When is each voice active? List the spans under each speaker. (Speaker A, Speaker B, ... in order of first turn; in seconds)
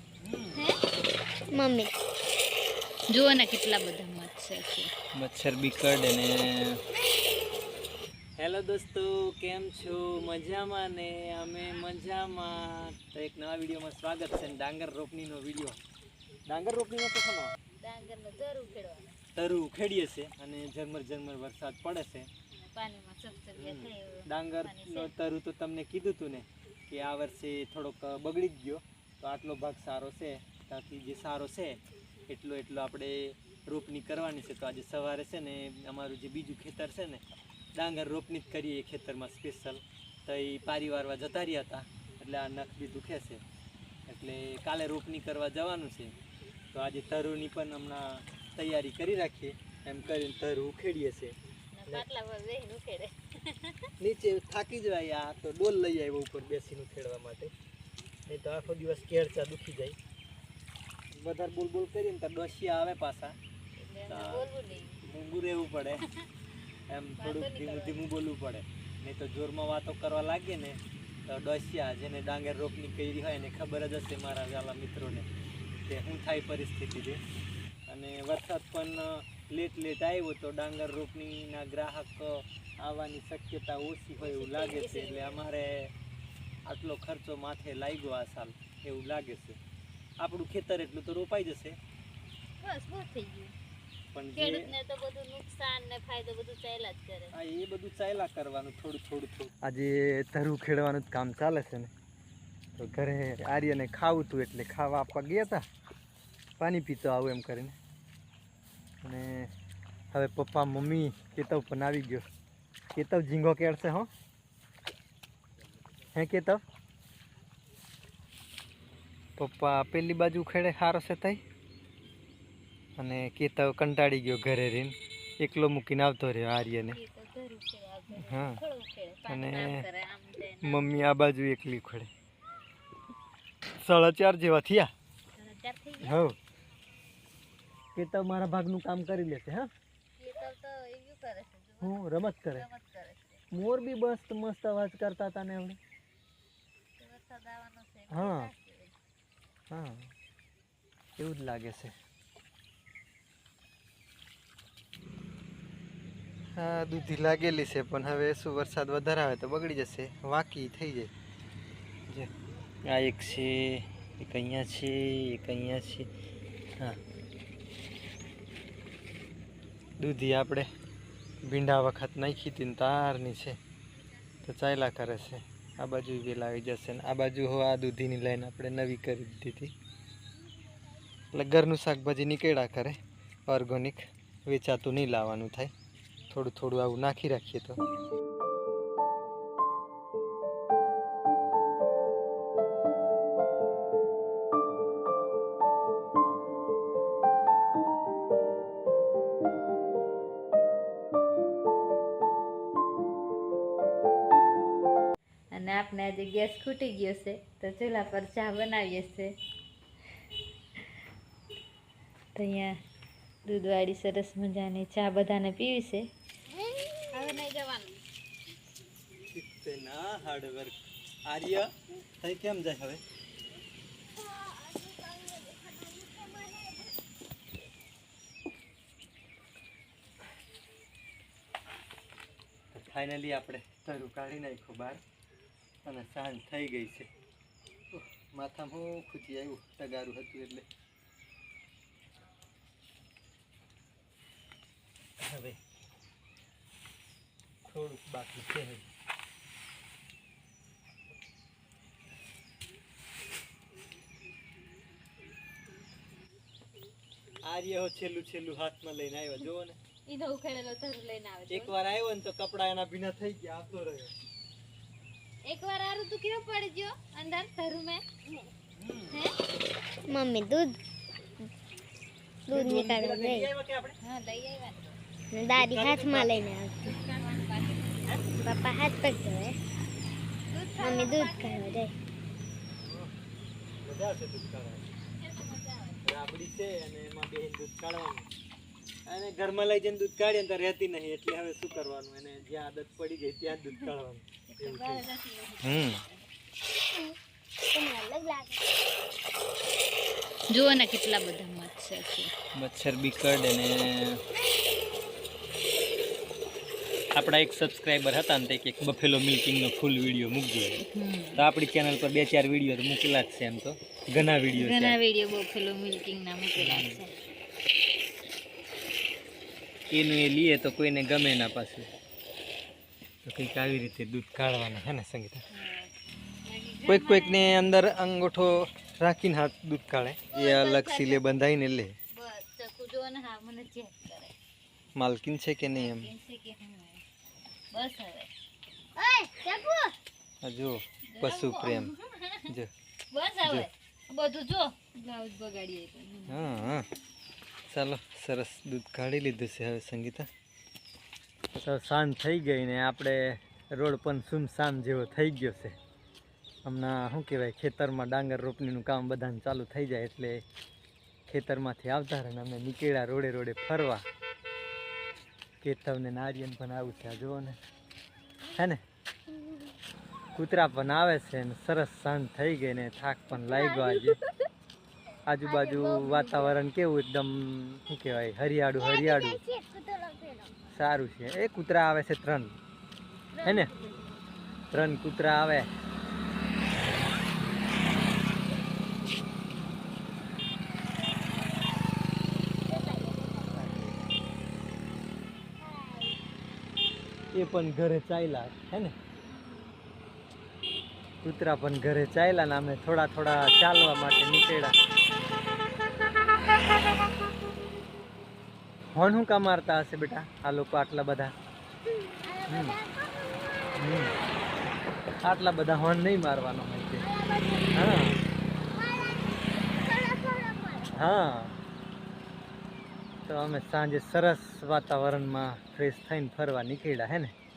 Speaker A: 0.2-0.6, 5.2-6.8, 8.4-15.8, 16.5-17.5, 19.4-22.3, 23.6-37.2, 37.8-43.4, 44.1-46.1, 46.7-52.1, 54.0-57.5, 58.3-60.0, 61.1-63.4, 64.1-64.5, 65.0-66.0, 66.9-75.3, 75.9-77.2, 77.9-85.9, 86.7-89.6, 90.2-91.8, 94.1-94.7, 97.3-101.9, 102.8-105.6, 106.6-107.8, 109.0-109.5, 110.1-112.3, 112.9-114.1, 116.2-116.6, 119.4-121.4, 123.0-127.0, 128.1-128.6, 129.3-129.9, 130.6-132.1, 133.8-134.9, 136.0-136.4, 137.9-139.7, 141.8-142.7, 143.5-145.8, 148.1-148.5, 149.7-150.1, 151.2-151.9, 156.6-161.1, 162.9-166.1, 170.0-170.7, 171.5-173.6, 174.4-179.7, 181.3-185.7, 186.3-187.8, 219.3-223.0, 232.7-235.0, 235.8-237.1, 237.9-240.7, 245.2-245.6, 247.7-248.9, 257.5-259.8, 261.5-264.1, 268.8-269.2, 272.5-274.0, 275.6-276.5, 282.7-283.1, 283.8-284.9, 286.1-288.3, 289.1-295.1, 295.6-296.0, 302.6-304.2, 307.1-310.8, 311.4-315.0, 316.6-317.0, 319.9-321.9, 323.2-325.4, 326.9-331.9, 335.0-336.1, 340.4-341.9, 346.3-346.9, 347.7-350.3, 351.6-355.8, 356.6-360.4, 361.3-364.1, 365.6-367.6, 368.6-368.8, 370.4-374.2, 375.3-379.4, 380.7-382.6, 383.4-383.7, 384.7-385.7, 393.5-394.1, 397.3-398.9, 401.2-404.8, 408.9-411.3, 412.5-412.8, 413.8-414.1, 415.2-417.0, 417.7-418.2, 420.9-421.5, 423.3-427.3
Speaker B: 0.5-0.8, 3.1-4.9, 17.8-19.2, 22.7-25.1, 51.7-53.9, 63.8-65.0, 67.2-68.1, 84.2-85.4, 92.6-93.5, 94.3-97.3, 126.8-130.9, 135.4-136.2, 140.2-143.4, 147.0-148.9, 205.5-209.3, 212.4-212.8, 213.5-216.1, 217.1-218.0, 260.1-261.8, 265.5-268.0, 274.0-275.0, 276.8-278.2, 280.5-281.8, 285.2-286.0, 294.5-296.2, 300.5-302.3, 310.8-311.4, 314.6-317.1, 325.5-325.9, 326.4-327.7, 330.3-331.4, 332.1-334.4, 335.7-337.0, 337.7-338.3, 341.1-342.6, 343.1-346.5
Speaker C: 1.5-1.9, 216.5-217.1, 224.2-226.8, 270.1-270.8, 272.5-273.5, 275.3-277.0, 278.4-279.6, 280.8-281.9, 297.7-298.6, 339.0-339.9, 373.5-374.3, 375.4-376.5, 378.8-380.5, 383.3-384.0, 392.7-393.6, 395.6-396.2, 412.1-413.8, 417.0-418.0, 418.7-420.9